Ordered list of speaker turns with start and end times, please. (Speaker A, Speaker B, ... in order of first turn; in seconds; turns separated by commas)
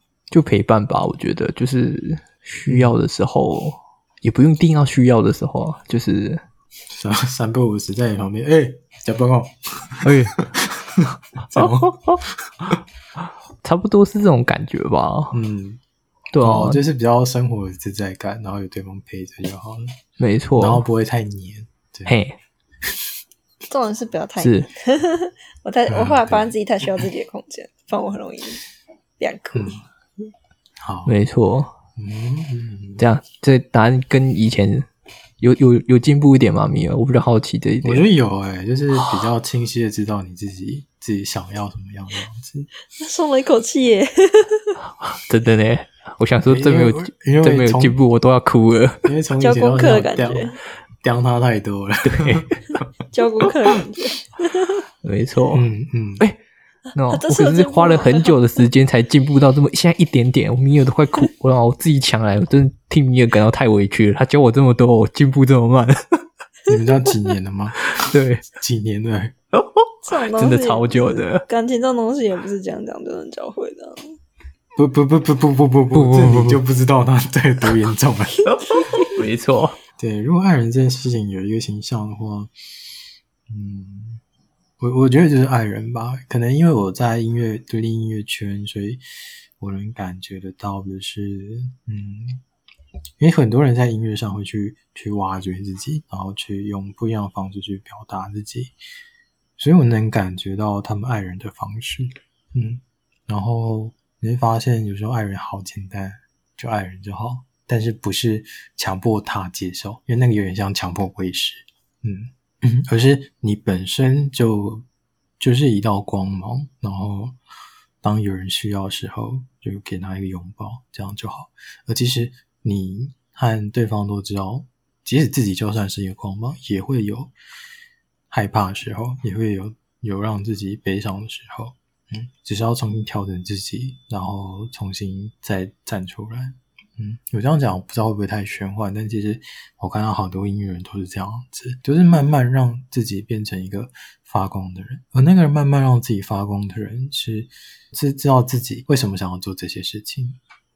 Speaker A: 0.3-6.4, Speaker B: 2.7-2.9, Speaker B: 6.9-12.2, Speaker A: 10.0-10.4, Speaker A: 11.5-12.2, Speaker A: 13.6-15.4, Speaker B: 15.3-15.8, Speaker A: 16.3-16.8, Speaker B: 16.4-19.8, Speaker A: 20.2-20.8, Speaker B: 20.6-22.1, Speaker A: 22.1-22.4, Speaker C: 23.7-28.6, Speaker A: 24.4-24.7, Speaker B: 25.9-26.5, Speaker C: 29.2-29.8, Speaker B: 29.5-29.8, Speaker B: 30.8-31.1, Speaker A: 31.1-31.7, Speaker B: 32.0-33.0, Speaker A: 33.0-34.9, Speaker A: 35.4-38.1, Speaker B: 37.8-42.7, Speaker C: 42.9-44.8, Speaker A: 45.0-49.1, Speaker B: 46.5-48.0, Speaker B: 49.0-52.8, Speaker C: 49.4-50.6, Speaker A: 52.0-52.5, Speaker C: 53.1-54.8, Speaker A: 55.0-55.6, Speaker B: 55.5-56.3, Speaker A: 56.9-66.0, Speaker C: 57.1-58.6, Speaker B: 66.7-67.9, Speaker C: 66.7-67.3, Speaker A: 68.0-68.4, Speaker B: 68.5-69.3, Speaker A: 69.6-71.4, Speaker C: 70.0-74.1, Speaker B: 74.8-78.8, Speaker A: 75.9-76.6, Speaker A: 79.1-79.8, Speaker B: 80.0-82.5, Speaker B: 83.5-84.2, Speaker B: 84.8-89.0, Speaker B: 89.6-92.4, Speaker B: 93.2-98.8, Speaker B: 99.6-114.8, Speaker B: 115.4-117.4, Speaker B: 118.0-127.3, Speaker B: 128.3-150.4